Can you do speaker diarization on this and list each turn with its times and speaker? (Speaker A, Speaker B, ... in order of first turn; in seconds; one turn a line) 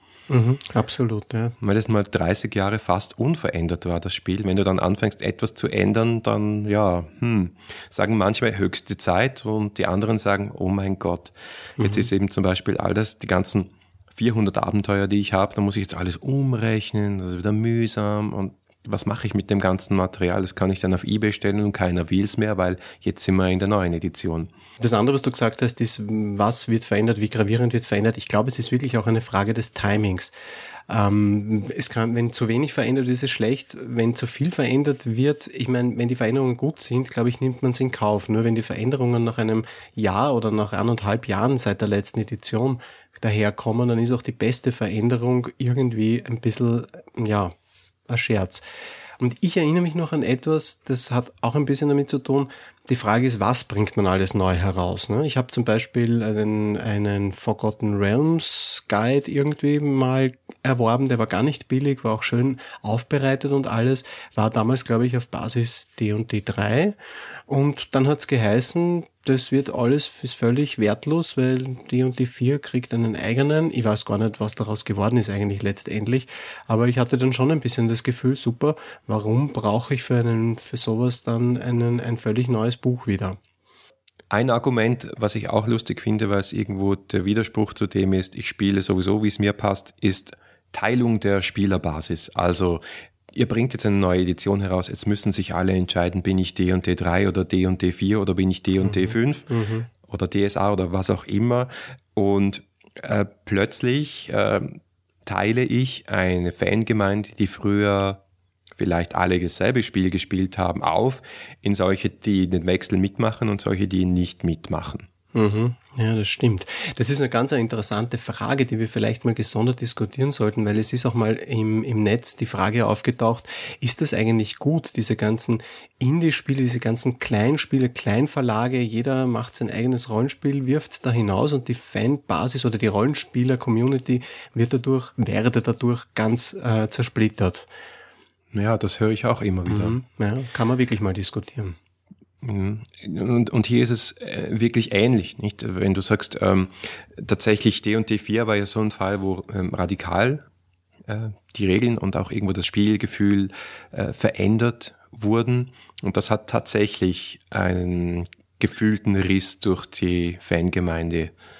Speaker A: 0.3-1.6
Speaker B: 1.6-24.5
Speaker A: 11.8-12.1
Speaker A: 24.8-30.3
Speaker A: 30.9-47.5
Speaker A: 48.1-48.6
Speaker A: 49.2-67.0
Speaker A: 67.5-83.4
Speaker B: 84.3-99.5
Speaker A: 98.8-99.9
Speaker B: 100.0-108.2
Speaker B: 108.8-115.1
Speaker A: 115.3-137.7
Speaker B: 138.5-140.0
Speaker A: 139.7-141.8
Speaker B: 142.4-150.5
Speaker B: 151.1-161.3